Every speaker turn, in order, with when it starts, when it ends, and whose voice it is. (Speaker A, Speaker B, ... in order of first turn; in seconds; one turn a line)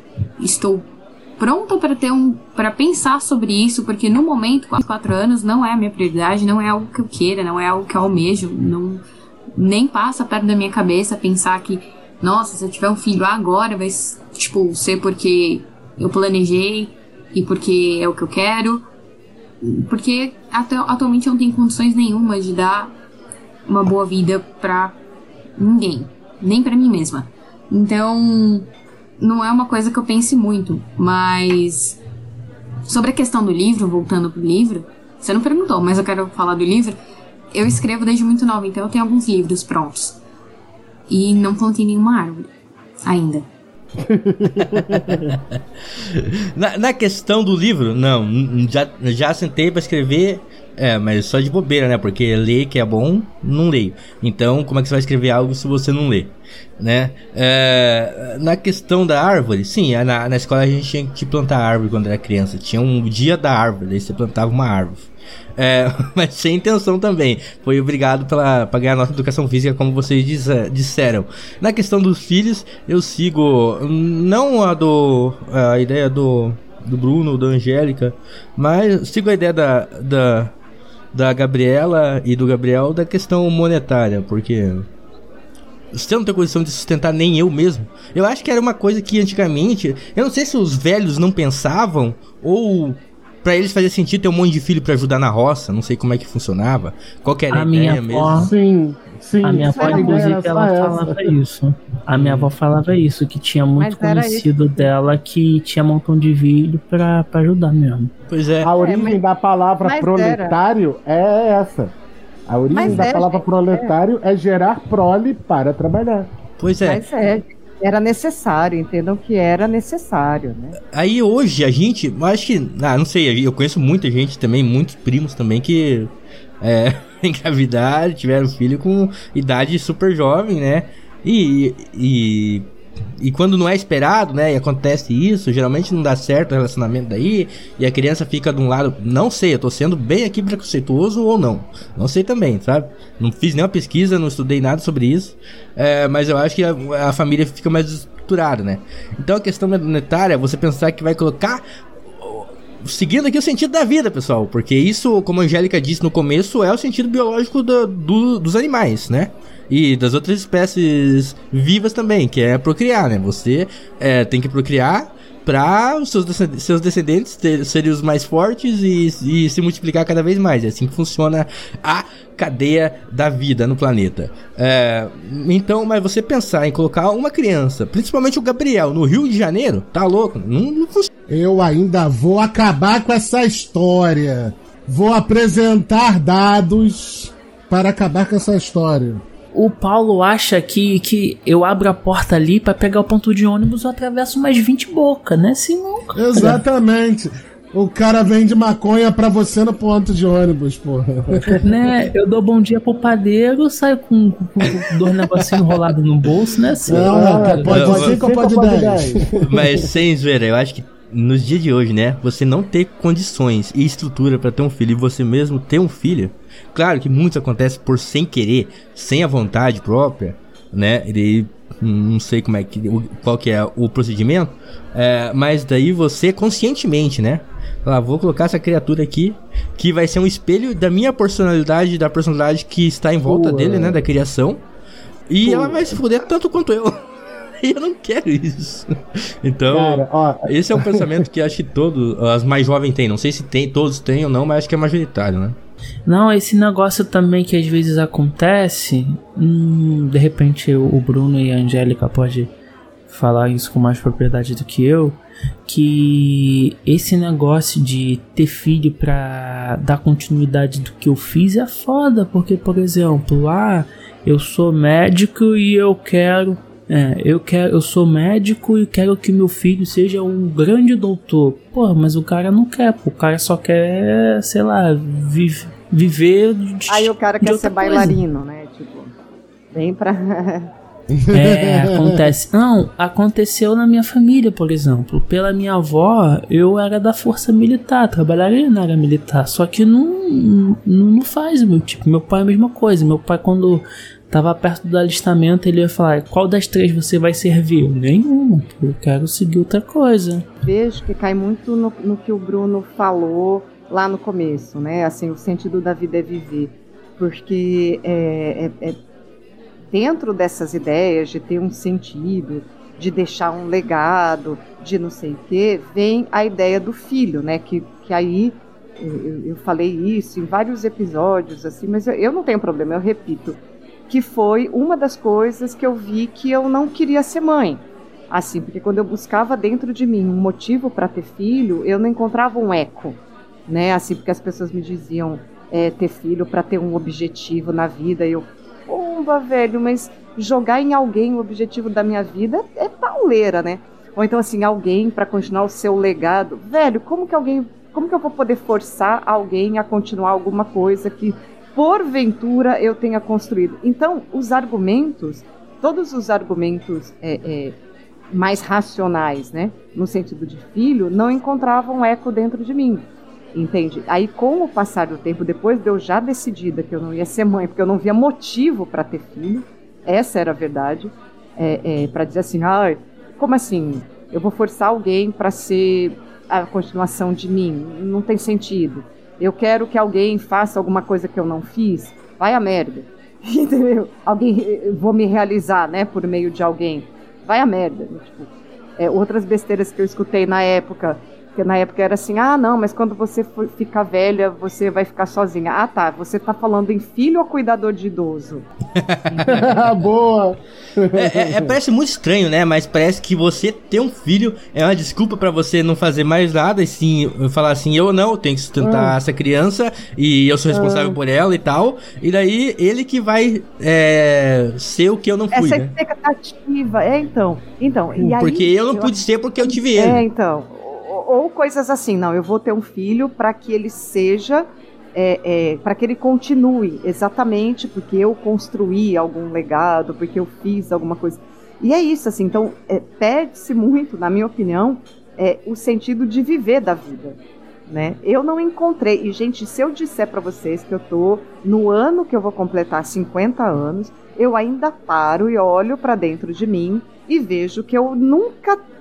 Speaker A: 0.4-9.0
Speaker A: 9.5-18.8
Speaker A: 19.6-22.9
Speaker A: 23.6-25.0
Speaker A: 25.6-32.0
Speaker A: 32.9-37.0
Speaker A: 37.5-40.2
Speaker A: 41.1-42.5
Speaker A: 43.0-43.5
Speaker B: 44.0-45.2
Speaker C: 44.7-45.4
Speaker C: 46.0-80.5
Speaker C: 81.1-84.9
Speaker C: 85.9-98.5
Speaker D: 97.5-98.5
Speaker B: 98.3-101.3
Speaker D: 99.4-108.1
Speaker E: 99.7-100.2
Speaker C: 102.1-102.5
Speaker E: 103.8-104.9
Speaker C: 108.3-108.7
Speaker B: 108.6-112.0
Speaker E: 108.8-109.2
Speaker E: 109.8-110.6
Speaker B: 112.5-116.3
Speaker E: 112.7-113.9
Speaker C: 112.8-113.1
Speaker C: 116.6-117.0
Speaker E: 116.8-120.8
Speaker C: 120.9-132.7
Speaker C: 133.2-181.1
Speaker B: 181.3-189.2
Speaker D: 189.5-196.6
Speaker B: 196.1-201.6
Speaker D: 201.6-207.8
Speaker B: 206.8-209.8
Speaker C: 207.7-208.2
Speaker C: 209.4-234.7
Speaker B: 233.2-234.0
Speaker C: 235.3-237.1
Speaker B: 235.4-236.0
Speaker C: 237.6-238.9
Speaker C: 239.4-245.6
Speaker B: 239.7-241.2
Speaker D: 246.1-252.5
Speaker D: 253.1-278.1
Speaker E: 276.9-279.1
Speaker E: 279.7-280.7
Speaker B: 281.2-282.0
Speaker D: 281.3-300.4
Speaker E: 300.6-309.0
Speaker E: 309.8-357.8
Speaker E: 358.3-398.6
Speaker C: 398.9-400.1
Speaker E: 399.3-399.8
Speaker B: 399.4-401.8
Speaker C: 401.1-415.9
Speaker B: 408.8-409.2
Speaker E: 410.8-411.2
Speaker E: 415.5-448.8
Speaker C: 418.1-420.2